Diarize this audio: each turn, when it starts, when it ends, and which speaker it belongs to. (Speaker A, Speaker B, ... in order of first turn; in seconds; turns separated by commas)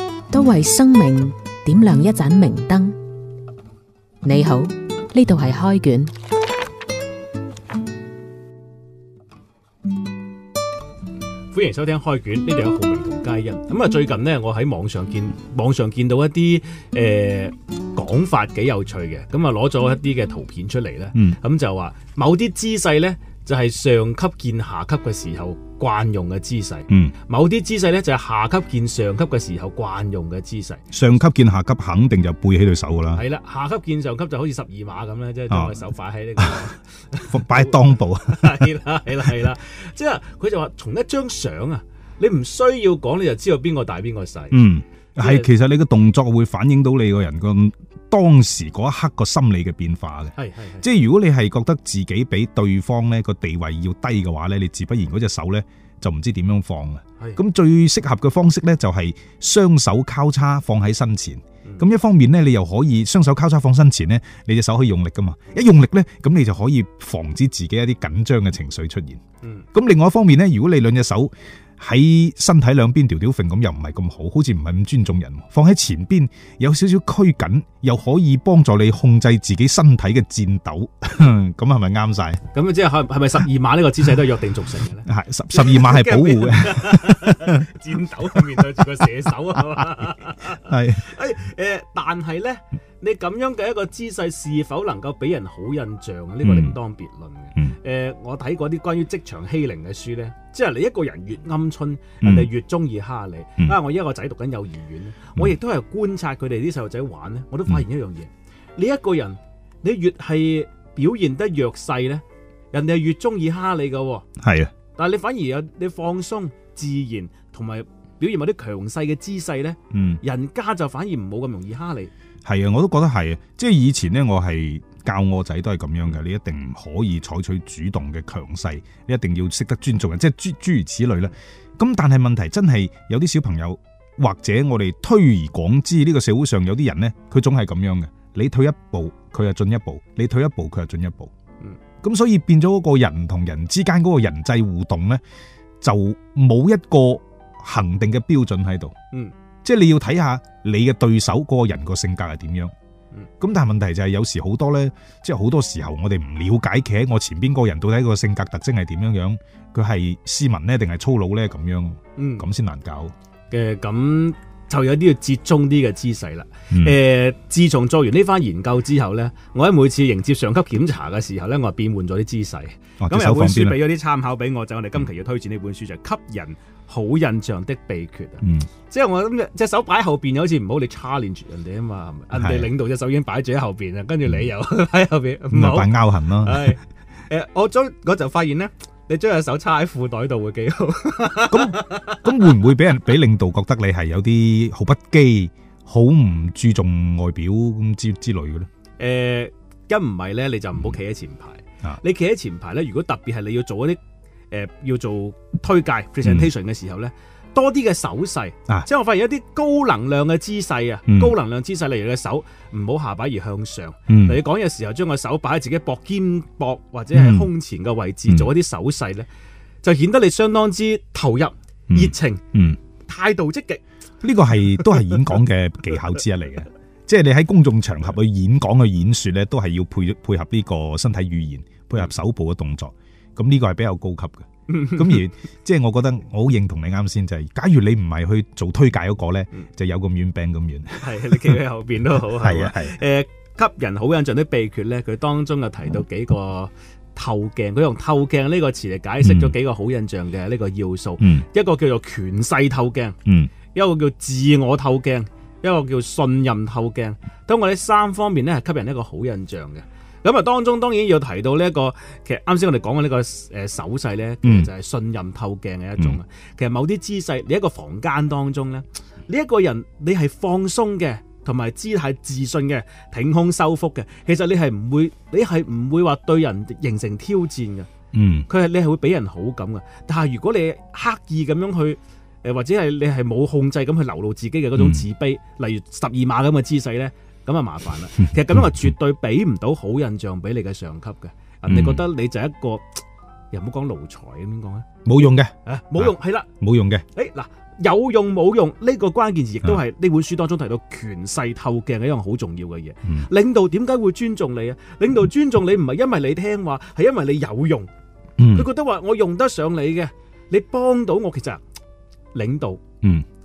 Speaker A: 0.3-3.0, Speaker A: 4.2-6.1, Speaker B: 11.5-30.8, Speaker C: 26.9-27.1, Speaker C: 30.9-33.2, Speaker B: 33.1-44.6, Speaker C: 35.5-35.8, Speaker C: 36.4-36.6, Speaker C: 37.2-38.7, Speaker C: 44.5-69.2, Speaker B: 45.2-45.5, Speaker B: 50.4-50.8, Speaker C: 69.7-82.4, Speaker B: 82.5-114.2, Speaker C: 85.0-87.6, Speaker C: 88.3-88.6, Speaker C: 89.7-91.1, Speaker C: 96.4-96.8, Speaker C: 102.2-102.5, Speaker C: 114.4-114.7, Speaker B: 114.9-122.1, Speaker C: 119.9-120.2, Speaker C: 122.4-141.3, Speaker C: 142.0-145.2, Speaker C: 145.8-148.9, Speaker C: 149.6-152.7, Speaker C: 153.4-163.1, Speaker B: 162.2-162.5, Speaker B: 163.5-192.2, Speaker C: 166.7-167.0, Speaker C: 173.0-173.8, Speaker C: 178.4-178.7, Speaker C: 182.3-182.7, Speaker C: 185.5-186.8, Speaker C: 191.5-198.7, Speaker B: 199.0-204.0, Speaker B: 204.5-219.3, Speaker C: 211.1-211.3, Speaker C: 214.1-214.4, Speaker C: 217.1-217.5, Speaker B: 219.8-222.4, Speaker C: 221.9-222.8, Speaker B: 223.1-223.8, Speaker C: 224.2-241.6, Speaker B: 234.7-235.2, Speaker B: 241.0-253.2, Speaker C: 242.3-243.0, Speaker C: 249.2-249.5, Speaker C: 251.2-251.4, Speaker C: 253.2-253.5, Speaker B: 253.7-277.9, Speaker C: 264.4-264.7, Speaker C: 278.1-278.5, Speaker B: 278.5-294.9, Speaker C: 284.8-285.1, Speaker C: 288.3-288.9, Speaker C: 291.6-292.1, Speaker C: 295.0-297.0, Speaker B: 295.6-296.5, Speaker B: 297.1-307.9, Speaker C: 308.4-308.7, Speaker B: 308.5-311.6, Speaker B: 312.3-312.8